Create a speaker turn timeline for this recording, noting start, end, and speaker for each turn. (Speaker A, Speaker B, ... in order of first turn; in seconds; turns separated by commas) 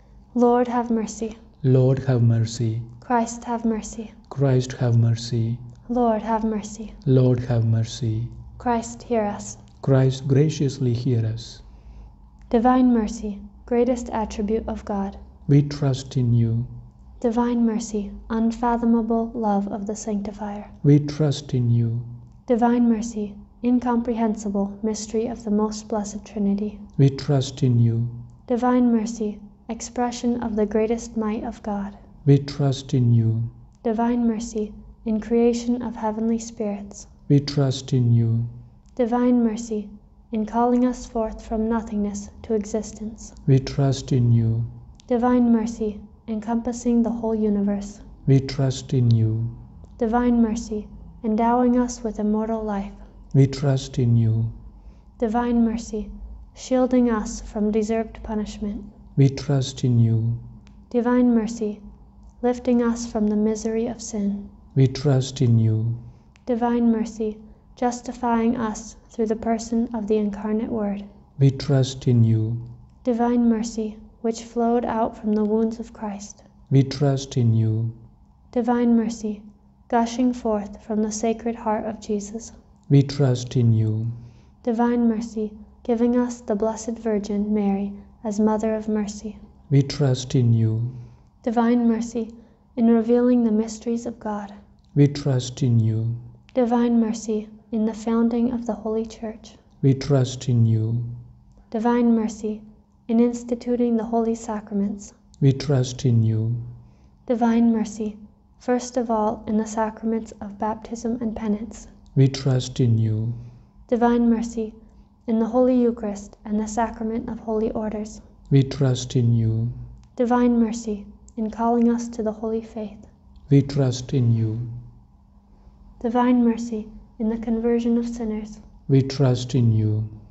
Speaker A: 0.3-1.4, Speaker B: 1.6-2.9, Speaker A: 3.0-4.1, Speaker B: 4.3-5.6, Speaker A: 5.9-7.0, Speaker B: 7.0-8.3, Speaker A: 8.6-9.6, Speaker B: 9.8-11.6, Speaker A: 12.5-15.2, Speaker B: 15.5-16.7, Speaker A: 17.2-20.7, Speaker B: 20.8-22.1, Speaker A: 22.5-26.8, Speaker B: 27.0-28.2, Speaker A: 28.5-32.0, Speaker B: 32.2-33.5, Speaker A: 33.8-37.1, Speaker B: 37.3-38.5, Speaker A: 39.0-43.4, Speaker B: 43.5-44.7, Speaker A: 45.1-48.0, Speaker B: 48.3-49.6, Speaker A: 50.0-53.0, Speaker B: 53.3-54.5, Speaker A: 55.2-58.9, Speaker B: 59.2-60.4, Speaker A: 60.9-61.8, Speaker A: 62.4-64.5, Speaker B: 64.8-66.0, Speaker A: 66.5-71.1, Speaker B: 71.4-72.7, Speaker A: 73.0-76.5, Speaker B: 76.7-78.0, Speaker A: 78.5-82.5, Speaker B: 82.9-84.2, Speaker A: 84.6-89.4, Speaker B: 89.7-91.0, Speaker A: 91.4-94.6, Speaker B: 95.0-96.2, Speaker A: 96.5-99.6, Speaker B: 99.8-101.1, Speaker A: 101.7-105.2, Speaker B: 105.4-106.7, Speaker A: 107.3-111.9, Speaker B: 112.2-113.4, Speaker A: 113.9-114.8, Speaker A: 115.3-118.2, Speaker B: 118.5-119.8, Speaker A: 120.2-123.1, Speaker B: 123.5-124.7, Speaker A: 126.0-128.6, Speaker B: 128.9-130.1